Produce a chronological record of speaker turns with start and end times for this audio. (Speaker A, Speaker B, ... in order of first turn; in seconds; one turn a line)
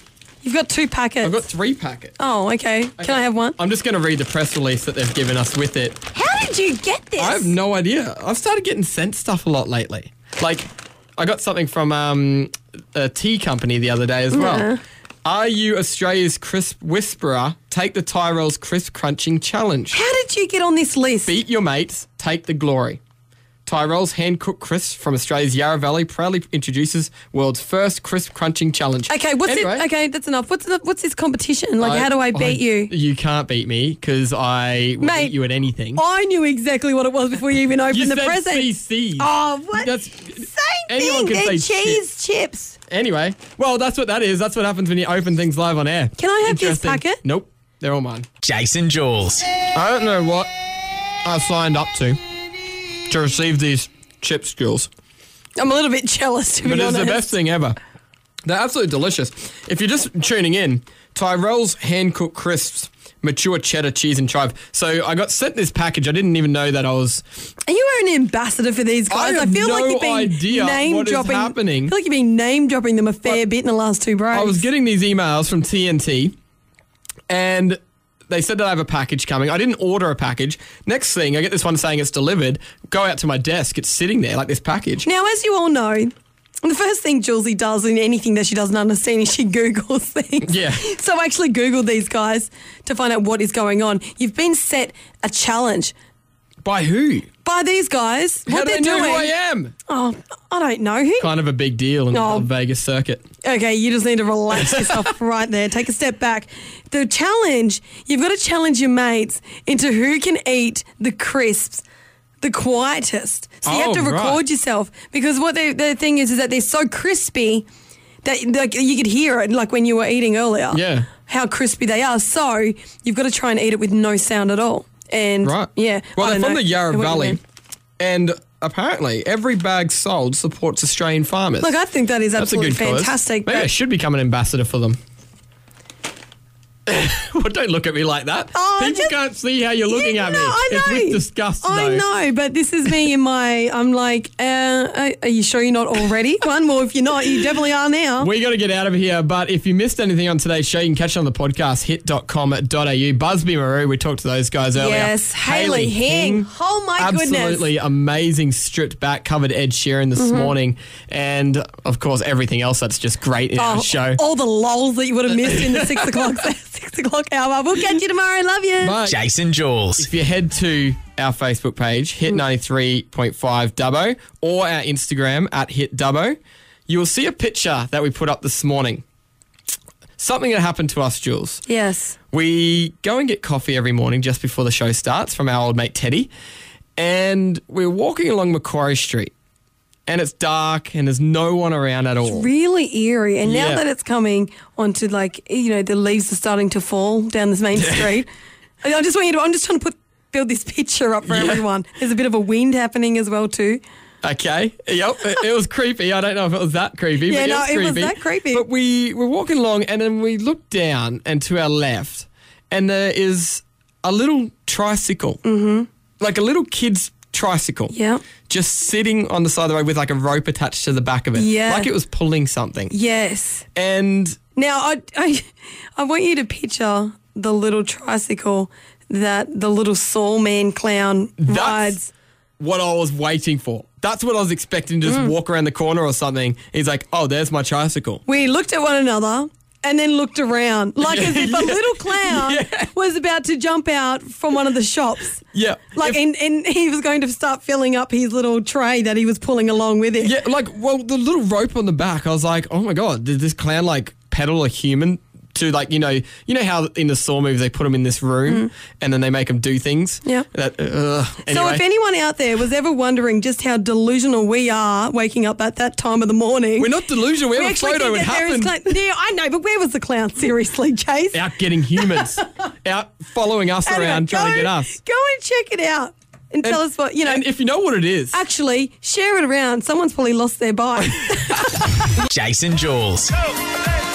Speaker A: 0.4-1.4
Speaker B: 1.2-2.1
Speaker A: 2.2-3.6
Speaker B: 3.0-6.0
Speaker A: 6.1-7.5
Speaker B: 7.2-14.7
Speaker A: 14.3-14.8
Speaker B: 15.2-20.0
Speaker A: 19.9-21.3
Speaker B: 21.3-23.0
Speaker B: 23.6-29.9
Speaker A: 29.1-32.9
Speaker B: 31.8-36.0
Speaker A: 35.0-35.4
Speaker A: 36.0-42.8
Speaker B: 37.9-42.0
Speaker B: 42.9-48.3
Speaker A: 46.2-47.2
Speaker C: 48.4-49.5
Speaker B: 49.7-50.5
Speaker B: 51.2-52.2
Speaker B: 53.1-54.9
Speaker A: 55.6-57.3
Speaker B: 56.6-57.8
Speaker B: 58.5-67.2
Speaker A: 67.7-74.6
Speaker B: 69.1-71.9
Speaker B: 74.3-76.3
Speaker B: 77.3-85.1
Speaker A: 85.0-95.9
Speaker B: 90.4-90.8
Speaker B: 96.6-97.3
Speaker A: 97.4-99.3
Speaker B: 98.5-99.7
Speaker A: 99.9-101.3
Speaker B: 101.2-103.3
Speaker A: 102.1-102.5
Speaker A: 103.4-111.8
Speaker B: 104.6-105.0
Speaker A: 112.4-117.7
Speaker B: 113.6-114.4
Speaker A: 118.2-127.4
Speaker B: 120.7-121.1
Speaker B: 125.4-127.4
Speaker B: 128.0-131.7
Speaker A: 131.6-133.7
Speaker B: 132.4-135.0
Speaker B: 136.9-142.1
Speaker A: 138.5-139.1
Speaker A: 139.9-148.3
Speaker B: 148.2-164.2
Speaker A: 154.8-157.7
Speaker A: 160.2-160.5
Speaker A: 163.6-169.0
Speaker B: 165.3-166.4
Speaker B: 168.8-169.2
Speaker C: 169.0-170.1
Speaker B: 170.0-179.0
Speaker B: 180.2-181.6
Speaker A: 181.7-182.2
Speaker B: 182.3-186.3
Speaker B: 187.0-189.3
Speaker B: 190.1-192.5
Speaker A: 192.2-198.3
Speaker B: 193.4-193.8
Speaker B: 197.8-198.2
Speaker A: 198.8-203.8
Speaker B: 201.3-201.6
Speaker B: 204.2-215.4
Speaker A: 207.3-208.6
Speaker A: 215.4-215.9
Speaker B: 216.2-217.9
Speaker A: 217.9-218.2
Speaker B: 218.5-222.9
Speaker A: 221.3-221.9
Speaker A: 222.9-223.6
Speaker B: 223.7-224.4
Speaker A: 224.6-232.1
Speaker B: 231.4-231.9
Speaker B: 232.6-238.2
Speaker A: 235.1-235.3
Speaker A: 238.3-245.4
Speaker B: 241.0-242.9
Speaker B: 245.5-246.2
Speaker A: 245.9-250.3
Speaker B: 250.2-261.8
Speaker A: 261.5-266.9
Speaker B: 266.8-268.8
Speaker A: 267.5-271.4
Speaker B: 271.3-274.9
Speaker A: 272.0-272.3
Speaker A: 273.9-277.4
Speaker B: 276.6-278.4
Speaker A: 278.3-281.7
Speaker B: 281.3-281.7
Speaker C: 282.3-283.3